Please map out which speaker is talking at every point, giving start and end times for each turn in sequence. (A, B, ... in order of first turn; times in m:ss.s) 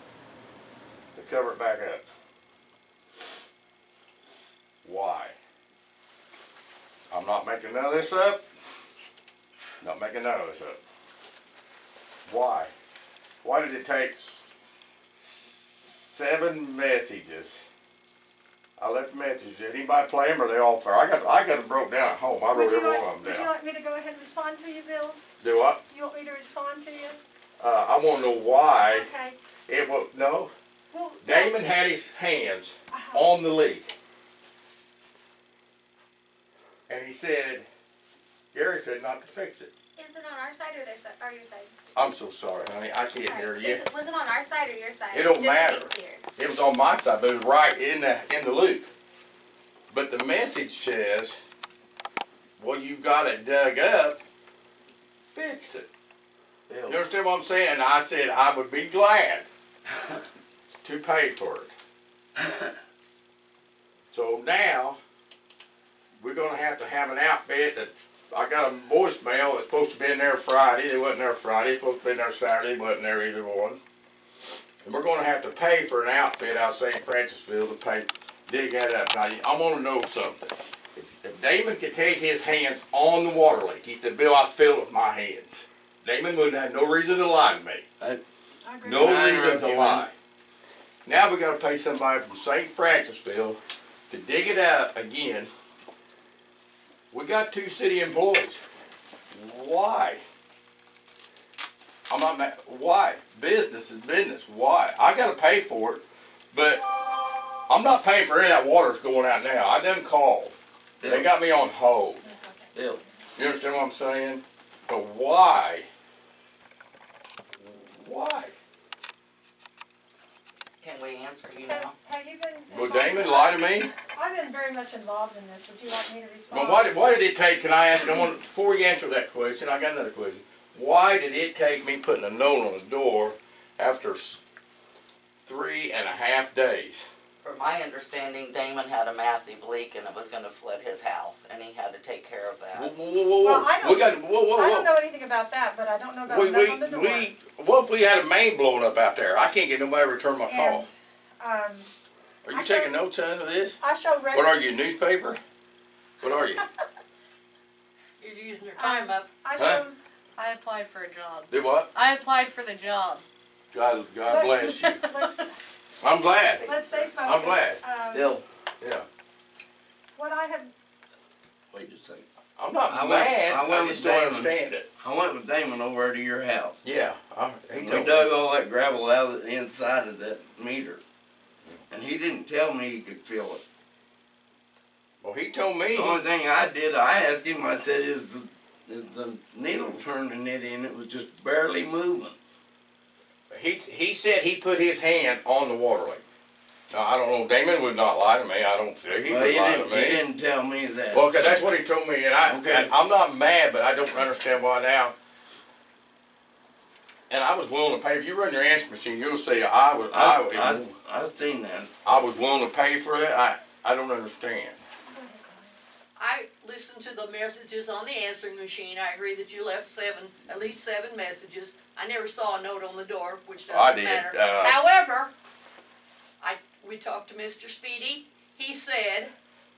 0:01.1-0:02.0 A
0:04.8-0:05.4 A
0:07.1-0:08.4 A
0:09.8-0:10.8 A
0:12.3-0:12.7 A
0:13.4-0:14.5 A
0:15.2-0:17.6 A
0:18.8-0:23.5 A
0:22.5-0:25.2 B
0:25.4-0:25.8 A
0:25.9-0:27.2 B
0:27.6-0:29.1 A
0:28.9-0:29.4 B
0:29.7-0:30.5 A
0:30.9-0:31.6 B
0:31.2-0:33.9 A
0:32.9-0:33.3 B
0:36.9-0:37.7 A
0:38.5-0:39.7 A
0:40.0-0:41.7 C
0:42.0-0:43.8 A
0:43.2-0:46.2 C
0:45.1-0:48.9 A
0:49.9-0:51.4 A
0:52.6-0:54.2 A
0:55.3-0:55.9 A
0:56.7-0:57.0 D
0:56.9-0:59.5 A
1:00.8-1:01.7 A
1:04.1-1:05.0 A
1:06.2-1:13.8 A
1:14.8-1:27.9 A
1:28.6-1:29.2 B
1:28.8-1:30.1 A
1:28.9-1:30.1 D
1:31.1-1:33.6 A
1:34.1-1:35.5 A
1:37.1-1:38.6 A
1:39.3-1:40.2 A
1:42.1-1:46.8 A
1:47.7-1:52.3 A
1:51.0-1:51.3 D
1:52.3-1:52.7 B
1:52.8-1:53.0 D
1:53.4-1:55.9 A
1:57.8-1:58.6 A
2:00.8-2:01.9 E
2:01.5-2:06.9 B
2:02.7-2:03.9 A
2:06.5-2:14.4 A
2:15.4-2:17.1 A
2:17.4-2:22.9 E
2:22.7-2:24.9 A
2:23.4-2:27.3 B
2:26.3-2:30.9 A
2:30.5-2:31.9 B
2:32.4-2:33.8 A
2:32.5-2:33.0 B
2:33.8-2:34.6 B
2:34.3-2:35.4 A
2:36.2-2:36.7 A
2:38.2-2:39.3 F
2:38.8-2:40.0 B
2:40.4-2:43.2 G
2:41.5-2:41.9 A
2:43.7-2:45.0 A
2:44.3-2:45.5 B
2:46.0-2:46.7 A
2:46.6-2:48.3 B
2:47.2-2:47.8 A
2:48.1-2:48.4 D
2:48.8-2:49.1 A
2:50.1-2:50.7 B
2:51.7-2:52.2 D
2:52.6-2:54.9 A
2:52.9-2:56.8 D
2:56.8-2:58.3 A
2:57.8-3:01.0 D
3:01.9-3:03.6 D
3:05.2-3:06.2 A
3:05.9-3:12.4 D
3:13.5-3:16.2 A
3:16.9-3:20.2 A
3:19.2-3:21.7 D
3:21.1-3:25.1 A
3:22.5-3:22.9 D
3:27.3-3:30.9 A
3:30.1-3:32.2 D
3:32.0-3:34.8 A
3:35.1-3:35.8 B
3:36.2-3:45.3 F
3:43.7-3:44.8 A
3:46.4-3:49.3 F